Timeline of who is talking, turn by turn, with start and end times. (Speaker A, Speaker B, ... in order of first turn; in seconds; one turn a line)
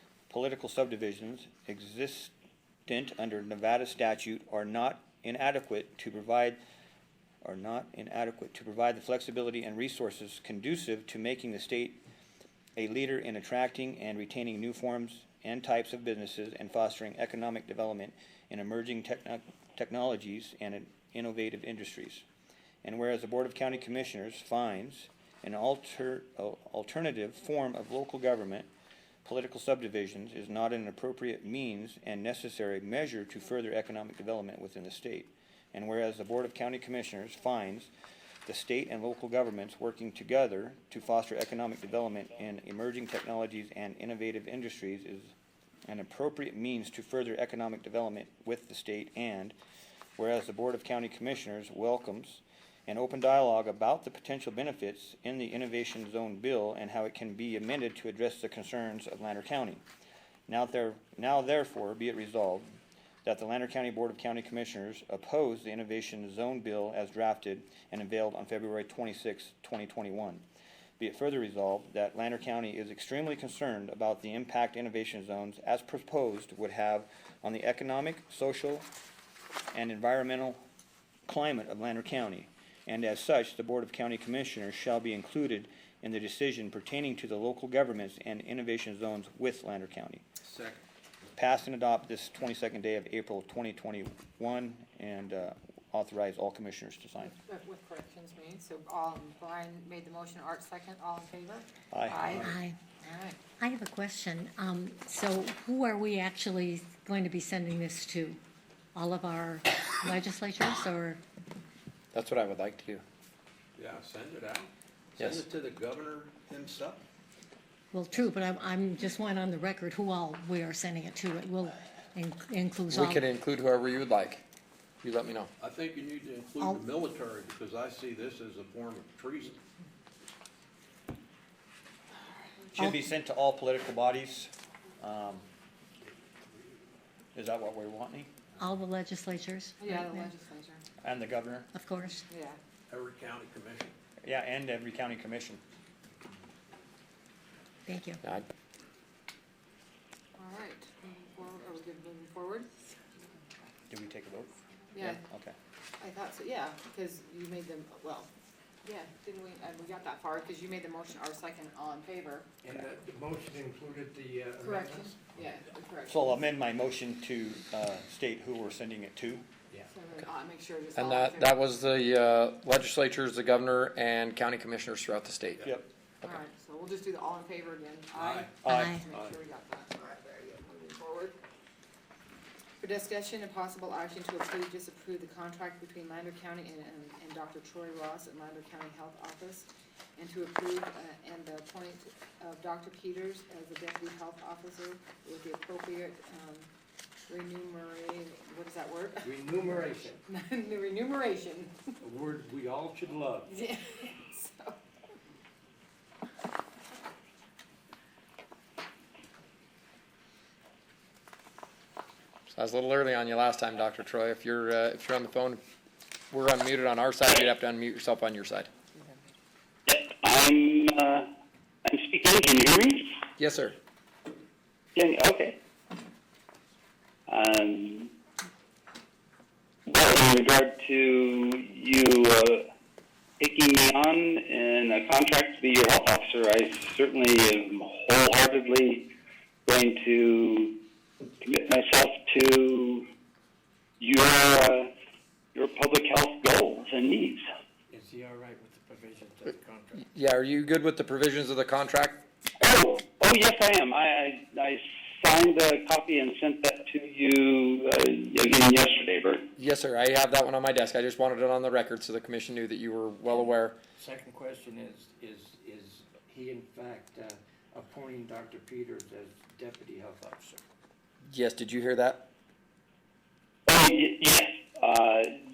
Speaker A: 0.3-2.3
Speaker A: 2.9-6.6
Speaker A: 7.4-12.0
Speaker A: 12.8-22.2
Speaker A: 22.8-28.7
Speaker A: 29.2-37.9
Speaker A: 38.5-45.3
Speaker A: 45.9-49.5
Speaker A: 50.2-59.8
Speaker A: 60.5-62.7
Speaker A: 63.2-70.4
Speaker A: 71.0-78.9
Speaker A: 79.7-80.6
Speaker A: 81.3-90.2
Speaker B: 90.4-90.8
Speaker A: 91.4-97.4
Speaker C: 97.2-102.5
Speaker A: 101.9-102.6
Speaker D: 102.2-102.8
Speaker C: 103.0-103.4
Speaker D: 103.6-108.4
Speaker D: 109.0-111.2
Speaker E: 112.1-113.0
Speaker B: 113.8-117.0
Speaker E: 115.2-115.4
Speaker D: 117.9-123.2
Speaker E: 122.9-124.4
Speaker E: 125.0-125.5
Speaker B: 125.6-129.6
Speaker D: 126.6-126.8
Speaker A: 132.8-135.4
Speaker A: 137.3-138.3
Speaker D: 138.6-140.3
Speaker C: 139.8-140.8
Speaker A: 141.0-141.7
Speaker D: 141.7-142.2
Speaker C: 142.3-142.6
Speaker B: 142.9-143.9
Speaker A: 144.2-145.6
Speaker D: 147.9-148.2
Speaker C: 150.4-152.8
Speaker A: 153.9-155.6
Speaker C: 154.9-155.2
Speaker C: 156.0-158.3
Speaker C: 158.8-162.5
Speaker F: 162.6-165.2
Speaker C: 164.6-166.4
Speaker A: 166.1-169.4
Speaker C: 169.9-171.7
Speaker E: 170.9-175.7
Speaker C: 176.2-181.4
Speaker B: 178.1-178.5
Speaker A: 178.6-179.0
Speaker D: 178.7-179.1
Speaker C: 182.8-196.7
Speaker C: 197.3-201.8
Speaker F: 199.2-200.2
Speaker F: 202.0-203.5
Speaker C: 203.5-204.8
Speaker E: 212.5-215.6
Speaker E: 216.3-218.7
Speaker G: 219.9-221.3
Speaker G: 221.8-223.1
Speaker E: 223.4-223.8
Speaker G: 225.0-225.6
Speaker G: 227.3-228.1
Speaker G: 229.9-232.7
Speaker G: 233.4-239.1
Speaker G: 239.7-240.8
Speaker G: 241.4-243.1
Speaker G: 244.0-244.9
Speaker G: 245.6-247.4
Speaker F: 247.9-250.1
Speaker E: 250.0-252.2
Speaker G: 252.6-259.4
Speaker E: 259.6-263.8
Speaker F: 264.0-270.6
Speaker E: 271.2-272.3
Speaker G: 273.7-275.4